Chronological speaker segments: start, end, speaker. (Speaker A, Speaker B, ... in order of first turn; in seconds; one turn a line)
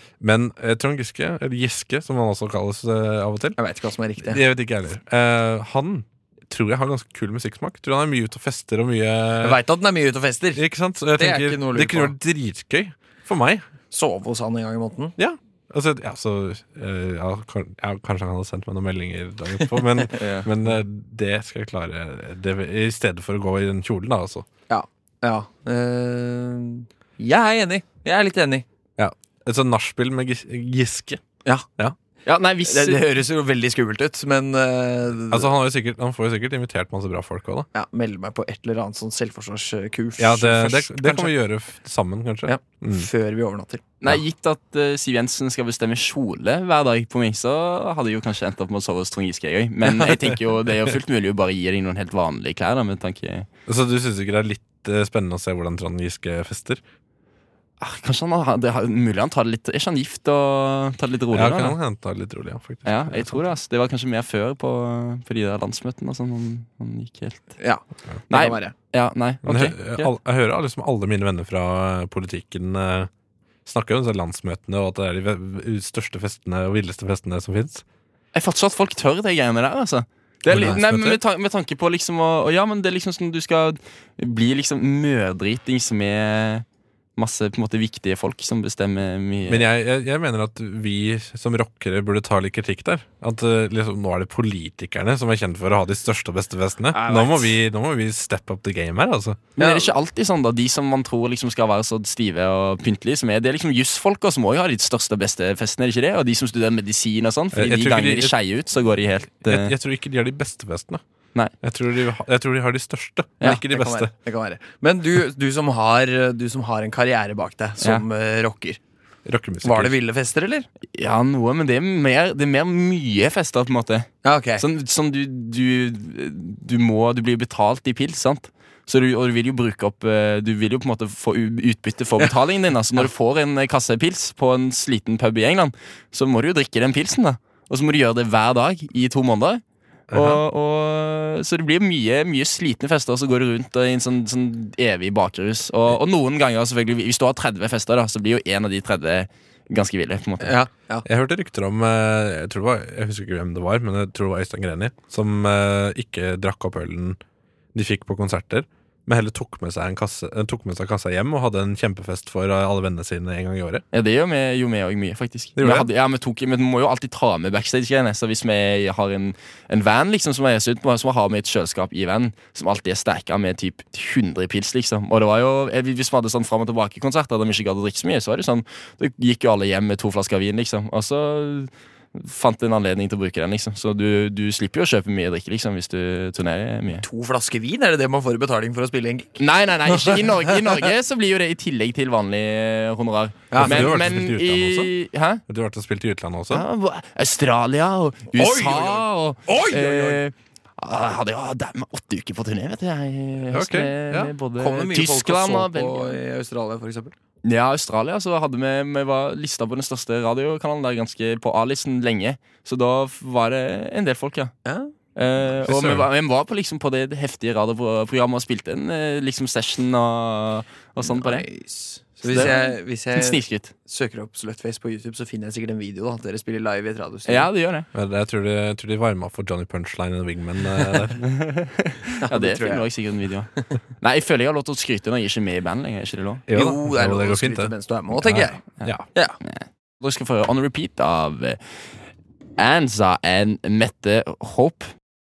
Speaker A: 0.2-3.6
Speaker B: 3.6-4.4
Speaker A: 4.2-9.6
Speaker B: 9.4-10.6
Speaker A: 10.5-13.6
Speaker B: 11.2-12.1
Speaker B: 13.9-15.1
Speaker A: 15.2-24.4
Speaker B: 20.0-20.5
Speaker B: 24.7-28.6
Speaker A: 29.0-31.2
Speaker C: 32.2-33.1
Speaker B: 32.6-35.5
Speaker A: 35.3-37.7
Speaker B: 37.7-41.3
Speaker A: 40.2-43.1
Speaker B: 42.5-43.8
Speaker C: 44.0-53.5
Speaker A: 50.0-50.3
Speaker A: 53.7-56.8
Speaker C: 57.8-61.8
Speaker A: 61.3-63.5
Speaker C: 62.8-67.5
Speaker B: 67.6-68.7
Speaker C: 68.3-70.1
Speaker A: 69.4-73.1
Speaker A: 73.7-77.8
Speaker C: 78.3-86.6
Speaker A: 80.5-81.2
Speaker C: 87.2-89.7
Speaker A: 89.5-99.4
Speaker C: 96.9-97.5
Speaker C: 99.6-109.7
Speaker B: 99.6-99.9
Speaker A: 107.5-108.3
Speaker A: 109.4-111.0
Speaker A: 111.6-114.1
Speaker B: 113.4-118.8
Speaker A: 119.2-119.9
Speaker B: 119.6-120.7
Speaker C: 120.9-150.5
Speaker B: 124.2-124.6
Speaker A: 140.1-140.4
Speaker B: 150.4-151.0
Speaker A: 151.0-157.2
Speaker A: 157.7-163.8
Speaker C: 163.9-187.0
Speaker A: 165.6-165.9
Speaker B: 187.0-190.8
Speaker C: 189.4-195.4
Speaker B: 193.5-194.0
Speaker A: 193.5-194.9
Speaker A: 195.5-196.7
Speaker C: 196.5-206.2
Speaker B: 198.3-200.2
Speaker A: 203.5-204.3
Speaker B: 204.6-207.1
Speaker C: 207.4-214.5
Speaker B: 214.6-214.9
Speaker C: 215.2-221.4
Speaker A: 215.6-216.1
Speaker B: 221.0-227.5
Speaker C: 222.2-223.7
Speaker C: 227.2-227.9
Speaker A: 227.9-231.2
Speaker C: 230.9-236.4
Speaker B: 232.2-232.9
Speaker A: 236.5-239.0
Speaker B: 236.5-238.6
Speaker C: 239.4-241.6
Speaker C: 242.6-244.9